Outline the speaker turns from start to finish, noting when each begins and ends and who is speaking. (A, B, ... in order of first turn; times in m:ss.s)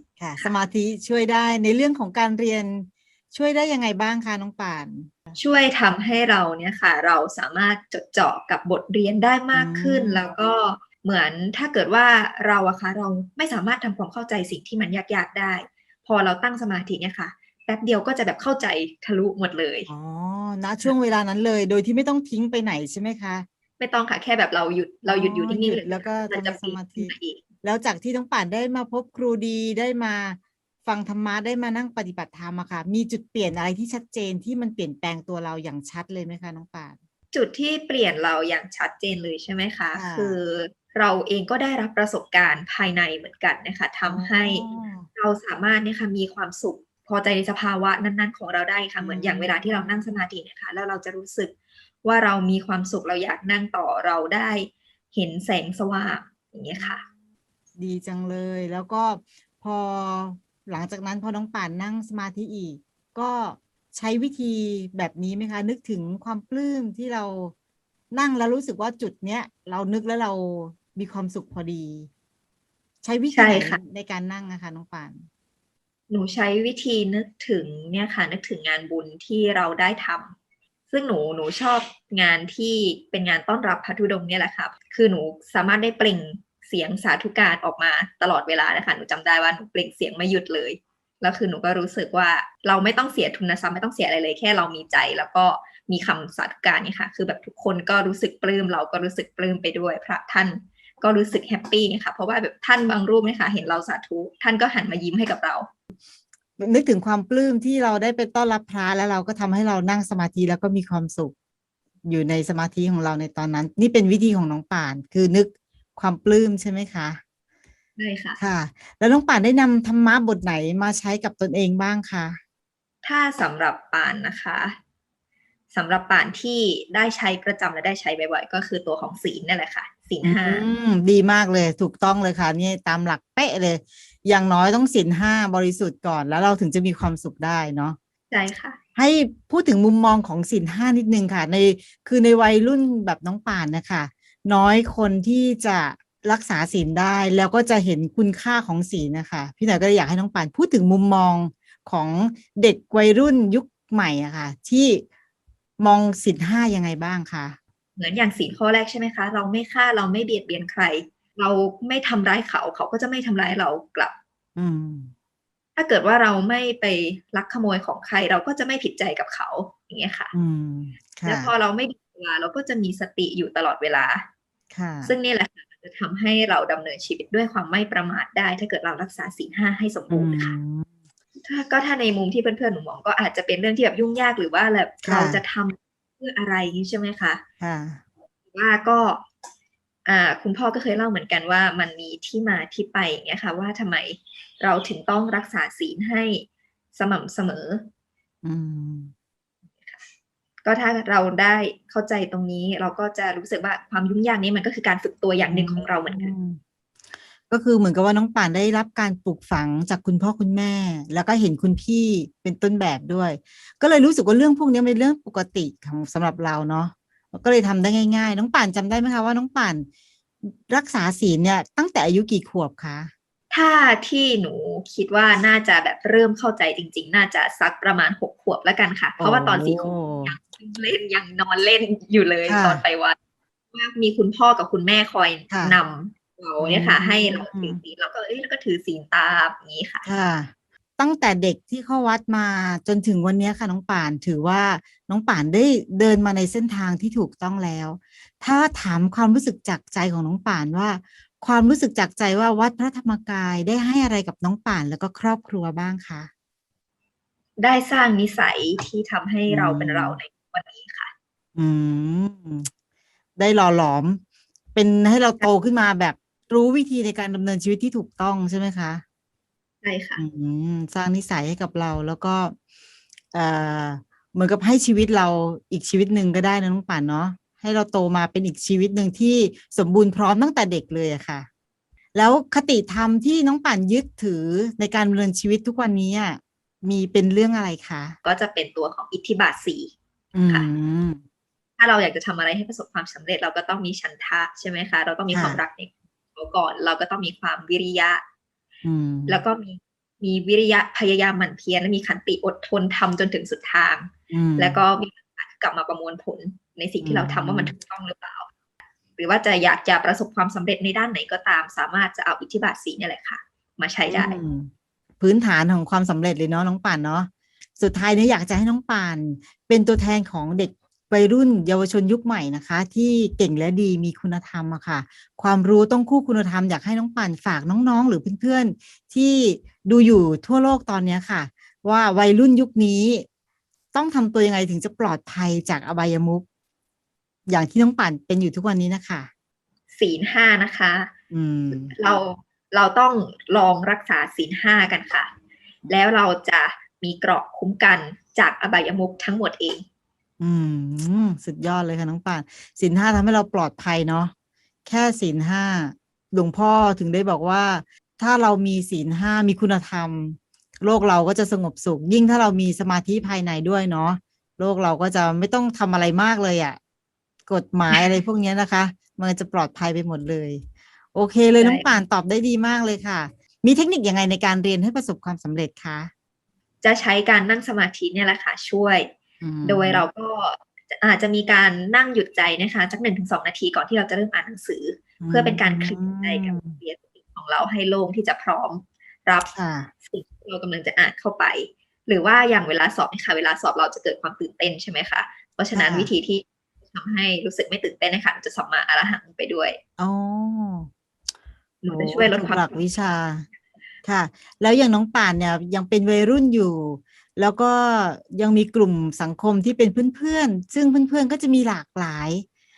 0:00.2-0:05.4 A
0:05.4-0:19.9 B
0:09.5-0:10.2 A
0:19.9-0:23.4 A
0:23.8-0:27.4 B
0:25.1-0:37.0 A
0:37.3-0:57.0 B
0:39.9-0:40.4 A
0:44.0-0:45.1 A
0:49.0-0:50.1 A
0:56.7-0:57.1 A
0:57.8-1:07.5 A
1:08.1-1:12.1 A
1:13.0-1:15.2 A
1:13.3-1:13.8 B
1:16.1-1:20.4 B
1:20.9-1:45.7 B
1:46.6-1:51.3 A
1:52.0-1:57.2 A
1:58.0-1:58.4 B
1:58.4-2:02.4 A
2:03.0-2:04.8 B
2:05.7-2:10.6 B
2:10.2-2:18.0 A
2:18.3-2:18.8 B
2:19.0-2:35.0 A
2:35.8-2:37.6 A
2:38.0-2:44.1 B
2:44.6-2:45.1 A
2:45.8-2:50.3 B
2:50.3-2:51.5 A
2:51.2-2:54.2 B
2:54.7-2:55.1 A
2:55.0-3:00.6 B
3:00.1-3:00.9 A
3:01.4-3:07.4 B
3:05.0-3:05.4 A
3:07.6-3:08.0 A
3:08.5-3:09.2 B
3:10.0-3:17.8 B
3:18.4-3:19.1 A
3:20.6-3:26.3 B
3:25.5-3:26.6 A
3:27.5-3:39.9 A
3:40.4-3:43.1 A
3:43.5-3:53.2 B
3:49.2-3:50.4 A
3:52.4-3:52.8 A
3:53.7-4:00.0 B
3:55.5-3:55.8 A
3:56.6-3:57.8 A
4:00.0-4:16.3 A
4:17.6-4:21.1 B
4:19.5-4:20.2 A
4:21.6-4:22.7 A
4:23.4-4:24.2 A
4:24.7-4:29.0 A
4:29.8-4:30.2 B
4:30.2-4:32.5 A
4:33.3-4:41.5 A
4:42.1-4:48.2 A
4:48.2-4:49.9 B
4:50.3-4:51.2 A
4:51.8-4:58.2 B
4:55.3-4:55.6 A
4:58.8-4:59.4 A
4:59.3-5:08.5 B
5:04.3-5:04.8 A
5:07.0-5:07.7 A
5:09.2-5:14.4 B
5:14.1-5:33.2 A
5:33.9-5:36.4 A
5:37.5-5:39.3 A
5:39.9-5:41.1 B
5:41.3-5:41.9 A
5:41.7-5:45.3 B
5:45.9-5:49.8 B
5:50.4-5:54.3 A
5:54.8-6:06.8 A
6:07.5-6:10.6 A
6:07.9-6:08.2 B
6:11.1-6:16.1 A
6:11.6-6:12.0 B
6:16.8-6:19.1 B
6:19.4-6:20.1 A
6:19.6-6:29.5 B
6:25.2-6:26.8 A
6:29.5-6:29.9 A
6:30.0-6:39.8 B
6:35.7-6:36.1 A
6:40.0-6:40.9 A
6:41.8-6:42.8 B
6:41.9-6:43.4 A
6:44.0-6:52.4 A